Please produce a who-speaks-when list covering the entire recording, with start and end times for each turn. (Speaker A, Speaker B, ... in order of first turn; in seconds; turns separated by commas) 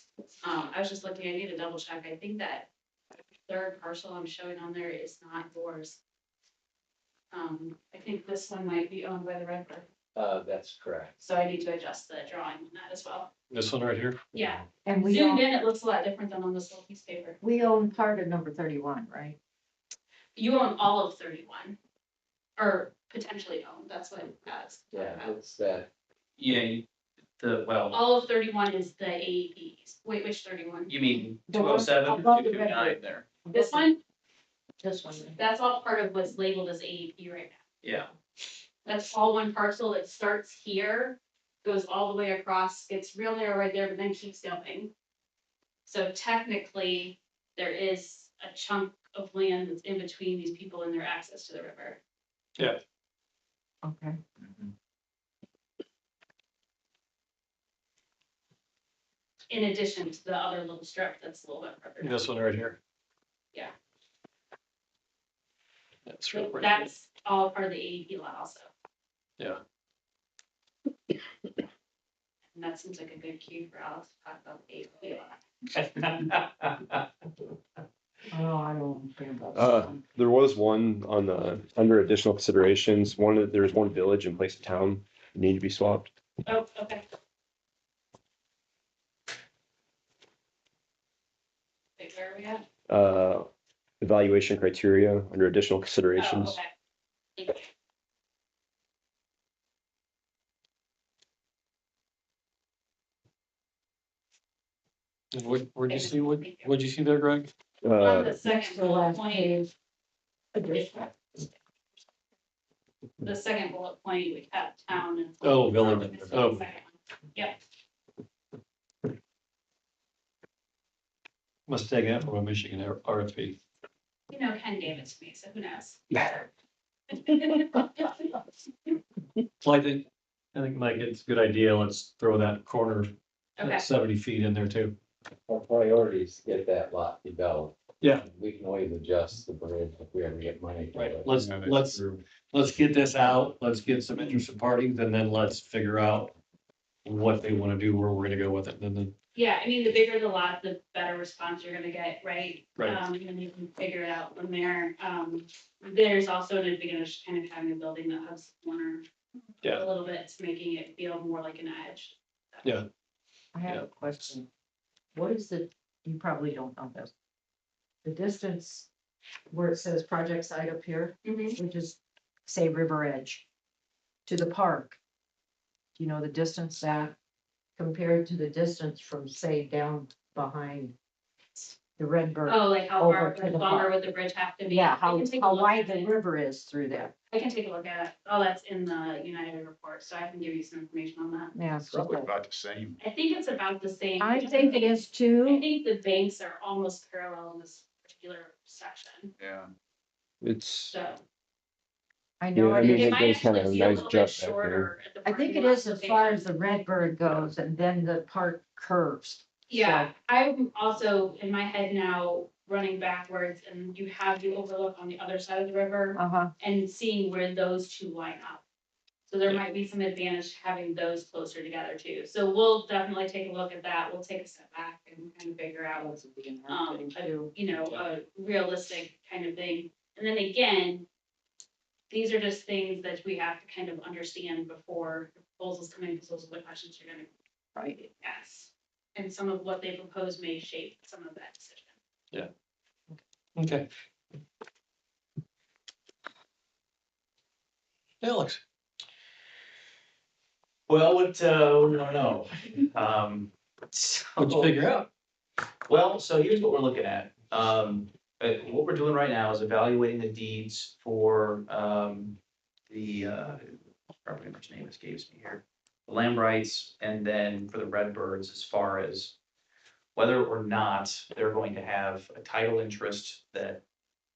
Speaker A: 0.4-2.7, Speaker A: 3.5-6.0, Speaker A: 7.3-9.9, Speaker B: 10.2-11.2, Speaker A: 11.2-13.3, Speaker C: 13.5-14.2, Speaker A: 14.3-17.4, Speaker D: 14.8-15.4, Speaker D: 17.4-19.4, Speaker A: 20.4-21.8, Speaker A: 22.6-25.3, Speaker B: 24.9-25.9, Speaker E: 26.4-26.9, Speaker E: 27.4-28.0, Speaker A: 27.9-30.9, Speaker E: 30.9-33.3, Speaker D: 31.5-33.9, Speaker A: 33.5-34.0, Speaker D: 34.8-35.4, Speaker A: 35.4-37.6, Speaker E: 37.8-38.1, Speaker A: 38.9-44.9, Speaker A: 45.9-52.0, Speaker D: 53.8-54.7, Speaker A: 59.5-62.2, Speaker C: 62.0-62.8, Speaker C: 66.1-66.9, Speaker A: 66.3-68.7, Speaker A: 72.5-75.4, Speaker E: 75.7-77.0, Speaker D: 78.3-80.0, Speaker F: 79.5-86.1, Speaker A: 86.5-87.0, Speaker A: 92.0-92.6, Speaker F: 92.9-93.5, Speaker F: 94.0-96.6, Speaker A: 96.2-96.7, Speaker A: 97.4-97.7, Speaker C: 105.3-107.5, Speaker A: 105.9-106.7, Speaker F: 107.8-108.4, Speaker A: 108.0-109.7, Speaker D: 108.4-109.7, Speaker D: 110.5-111.1, Speaker A: 113.2-117.6, Speaker C: 115.4-116.6, Speaker C: 121.7-123.6, Speaker A: 124.3-126.0, Speaker A: 127.2-128.2, Speaker C: 129.6-135.0, Speaker A: 133.6-133.8, Speaker B: 135.5-141.3, Speaker C: 138.0-138.3, Speaker C: 140.9-142.0, Speaker G: 141.2-142.2, Speaker C: 142.5-146.3, Speaker G: 144.1-144.5, Speaker C: 147.1-149.1, Speaker A: 149.3-159.0, Speaker A: 159.6-162.7, Speaker D: 163.5-164.5, Speaker D: 165.2-167.1, Speaker D: 168.0-168.9, Speaker D: 169.5-173.5, Speaker A: 171.2-171.6, Speaker D: 174.3-175.0, Speaker D: 176.0-177.2, Speaker D: 177.8-180.9, Speaker D: 182.0-183.9, Speaker A: 182.5-186.1, Speaker D: 184.6-187.1, Speaker A: 187.3-191.5, Speaker D: 191.6-192.3, Speaker G: 191.8-193.0, Speaker A: 193.0-199.3, Speaker D: 194.2-195.7, Speaker G: 199.4-199.7, Speaker F: 200.4-200.9, Speaker A: 200.9-201.2, Speaker D: 202.4-203.4, Speaker F: 202.6-204.9, Speaker A: 202.8-206.5, Speaker D: 205.2-210.1, Speaker A: 209.7-218.6, Speaker D: 216.2-216.5, Speaker A: 219.3-226.1, Speaker D: 225.9-227.5, Speaker A: 226.7-231.1, Speaker A: 232.1-237.3, Speaker D: 237.8-238.1, Speaker A: 238.2-242.0, Speaker C: 243.6-243.9, Speaker C: 248.2-248.6, Speaker E: 250.9-254.8, Speaker C: 254.4-255.1, Speaker E: 255.9-262.4, Speaker E: 262.9-263.6, Speaker E: 264.2-269.4, Speaker E: 270.1-273.8